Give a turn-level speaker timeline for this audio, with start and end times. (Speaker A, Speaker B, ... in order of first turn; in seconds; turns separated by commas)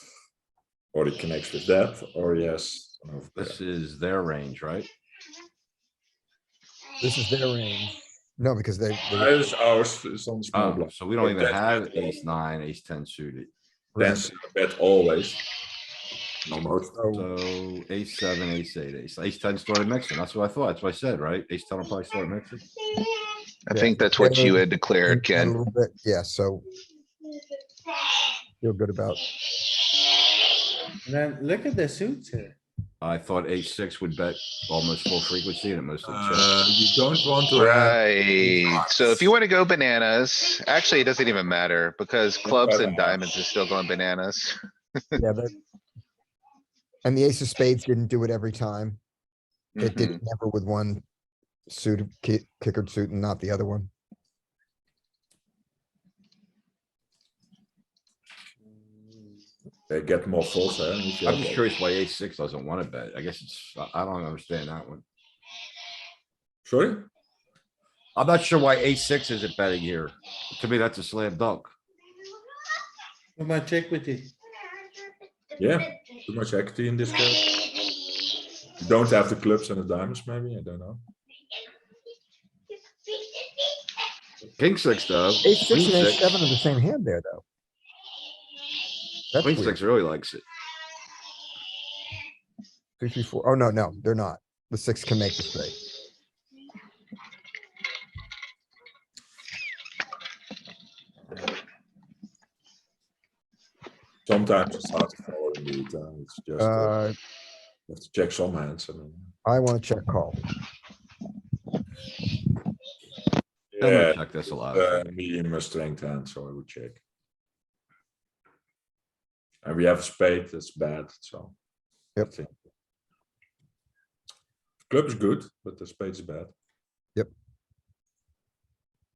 Speaker A: 0.9-3.6, Speaker B: 3.3-4.9, Speaker C: 7.0-9.5, Speaker A: 9.1-12.2, Speaker B: 10.5-13.5, Speaker C: 13.9-14.2, Speaker A: 13.9-15.4, Speaker A: 16.4-17.1, Speaker C: 16.9-17.2, Speaker B: 17.1-22.6, Speaker D: 23.7-25.5, Speaker C: 23.7-26.6, Speaker C: 28.6-29.2, Speaker E: 31.1-32.6, Speaker B: 33.0-36.5, Speaker A: 36.0-39.3, Speaker D: 37.5-44.6, Speaker A: 42.4-43.2, Speaker C: 45.2-45.5, Speaker C: 47.0-49.0, Speaker D: 49.8-50.2, Speaker C: 49.8-51.0, Speaker C: 51.7-53.9, Speaker A: 59.9-61.6, Speaker B: 61.2-65.0, Speaker A: 66.6-67.1, Speaker B: 68.1-71.7, Speaker E: 73.4-74.3, Speaker A: 75.6-77.6, Speaker A: 78.8-81.0, Speaker B: 84.6-86.2, Speaker C: 85.4-87.4, Speaker C: 89.3-89.8, Speaker B: 89.4-90.4, Speaker C: 93.0-95.7, Speaker A: 104.2-106.9, Speaker C: 106.6-107.1, Speaker A: 107.9-109.3, Speaker C: 109.4-110.4, Speaker A: 113.7-117.0, Speaker B: 113.8-115.1, Speaker A: 119.6-121.5, Speaker A: 122.2-122.5, Speaker A: 124.9-126.5